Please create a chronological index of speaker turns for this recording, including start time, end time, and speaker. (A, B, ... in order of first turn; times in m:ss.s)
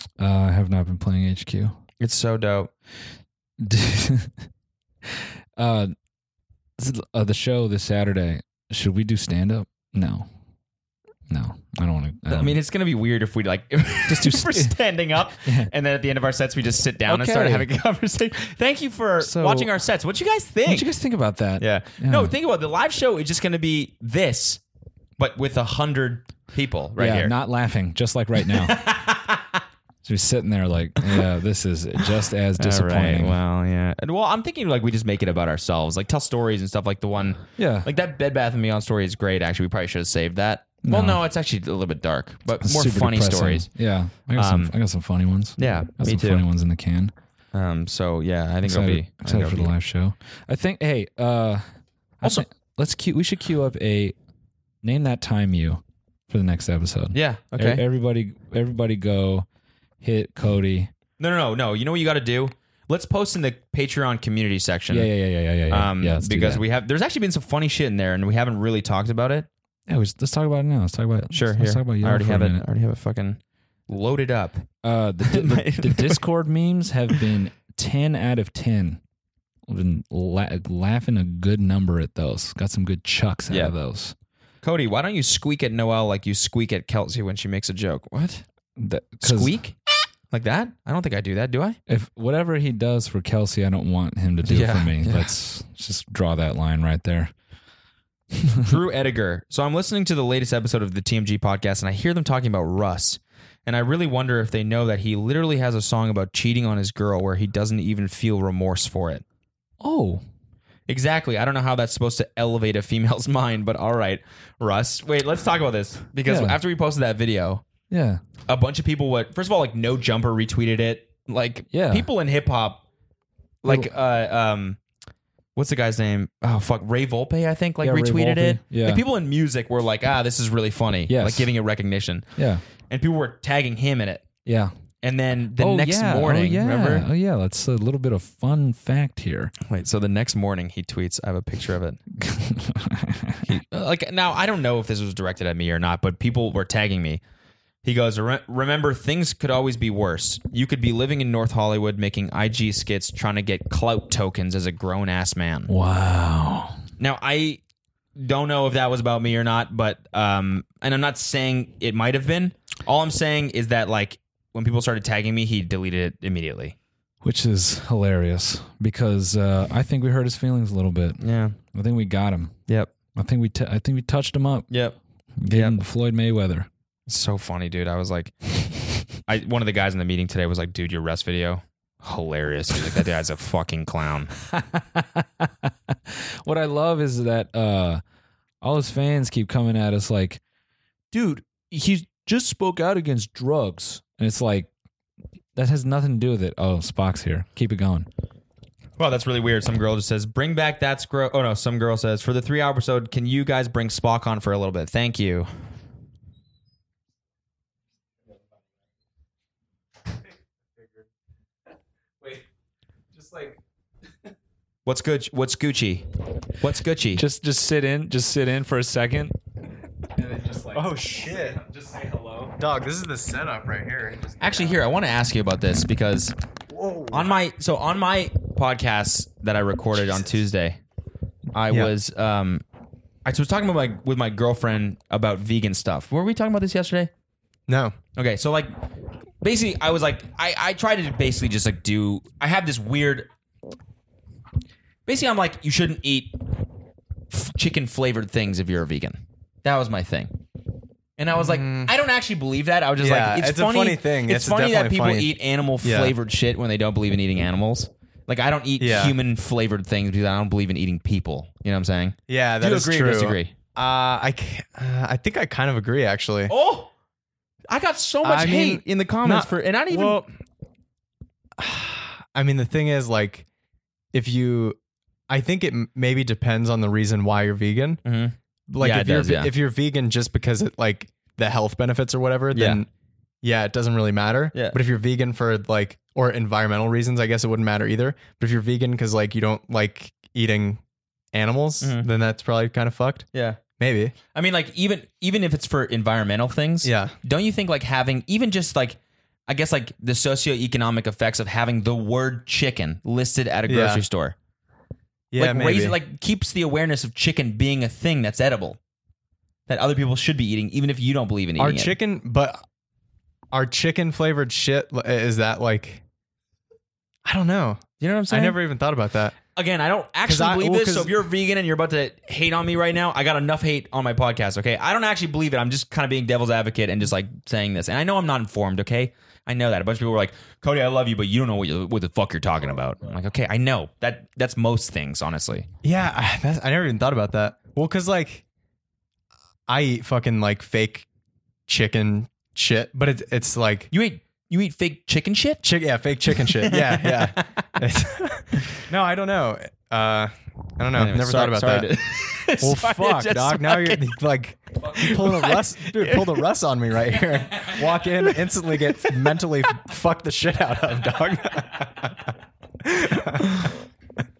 0:00.2-0:01.8 A
0:02.0-0:02.7 B
0:03.6-0:04.4 A
0:05.0-0:05.9 A
0:06.8-0:10.3 A
0:11.3-0:12.6 A
0:12.3-0:20.9 B
0:14.1-0:14.8 A
0:15.4-0:15.7 A
0:17.1-0:17.7 A
0:19.2-0:19.7 A
0:20.6-0:22.3 A
0:21.6-0:24.6 B
0:25.2-0:27.3 B
0:27.0-0:28.9 A
0:28.6-0:29.6 B
0:30.0-0:33.4 A
0:32.6-0:43.7 B
0:37.6-0:37.9 A
0:40.8-0:41.2 A
0:42.6-0:47.1 A
0:44.3-0:44.7 B
0:45.6-0:46.4 B
0:47.5-0:49.7 B
0:48.6-0:51.6 A
0:52.2-0:54.1 A
0:54.8-0:59.4 A
0:57.1-0:57.8 B
1:00.0-1:00.9 A
1:01.2-1:05.1 B
1:04.9-1:06.6 A
1:05.7-1:09.5 B
1:09.9-1:12.6 A
1:11.3-1:14.7 B
1:14.8-1:19.0 A
1:15.2-1:16.2 B
1:19.7-1:24.1 A
1:24.6-1:28.4 B
1:28.8-1:29.5 A
1:29.2-1:29.8 B
1:30.3-1:31.8 B
1:31.9-1:37.3 A
1:34.4-1:35.3 B
1:38.4-1:38.7 A
1:38.6-1:49.2 B
1:49.8-1:50.2 A
1:50.9-1:57.6 B
1:56.2-1:56.6 A
1:57.9-1:58.2 A
1:58.5-2:02.8 B
2:01.7-2:02.1 A
2:03.6-2:04.8 B
2:05.6-2:12.3 B
2:07.8-2:09.0 A
2:11.1-2:11.5 A
2:12.4-2:12.6 A
2:12.8-2:14.2 B
2:14.4-2:14.7 A
2:15.0-2:17.1 B
2:15.6-2:19.5 A
2:19.7-2:22.0 B
2:22.2-2:23.5 A
2:23.4-2:27.2 B
2:27.8-2:35.7 B
2:35.7-2:36.8 A
2:37.0-2:37.6 B
2:38.2-2:46.7 B
2:47.2-2:52.6 A
2:51.2-2:51.6 B
2:53.1-2:54.7 A
2:54.7-2:55.0 B
2:55.4-2:56.7 A
2:55.5-2:55.8 B
2:57.1-2:58.5 B
2:59.1-3:04.3 B
3:04.4-3:08.0 A
3:08.6-3:10.4 A
3:11.1-3:14.7 A
3:15.5-3:18.1 A
3:19.0-3:25.5 B
3:33.2-3:33.5 C
3:34.8-3:36.0 B
3:36.6-3:37.2 B
3:37.1-3:39.4 A
3:40.2-3:42.5 A
3:40.7-3:41.6 C
3:42.6-3:44.8 C
3:44.4-3:46.3 B
3:47.1-3:50.8 B
3:51.5-3:52.6 B
3:53.2-3:57.1 B
3:57.7-3:58.0 C
3:58.2-3:58.7 B
3:59.4-4:03.3 B
4:05.0-4:06.4 B
4:07.3-4:10.3 B
4:11.2-4:23.6 B
4:11.4-4:11.9 C
4:13.0-4:16.1 C
4:18.8-4:19.2 C
4:22.3-4:26.5 C
4:26.5-4:26.9 B
4:27.7-4:30.3 B
4:28.2-4:30.3 C
4:31.6-4:33.4 C
4:34.1-4:34.8 C
4:35.3-4:38.0 C
4:38.0-4:39.5 B
4:38.7-4:42.9 C
4:42.5-4:42.8 B
4:43.4-4:50.8 C
4:44.5-4:44.8 B
4:51.3-4:54.1 C
4:51.8-4:52.1 B
4:53.3-4:53.6 B
4:54.3-5:04.4 B
4:56.8-4:57.1 C
5:03.7-5:04.0 C
5:05.3-5:06.0 C
5:05.4-5:08.8 B
5:09.7-5:12.0 B
5:11.6-5:12.6 C
5:13.5-5:16.0 C
5:17.2-5:19.4 C
5:18.0-5:18.6 B
5:19.5-5:35.7 B
5:20.2-5:21.2 C
5:35.8-5:38.4 C
5:39.7-5:41.1 C
5:41.7-5:43.9 C
5:43.9-5:45.6 B
5:45.6-5:51.9 C
5:46.6-5:47.6 B
5:50.9-5:54.1 B
5:52.5-6:02.2 C
5:54.9-5:56.4 B
6:02.8-6:03.7 C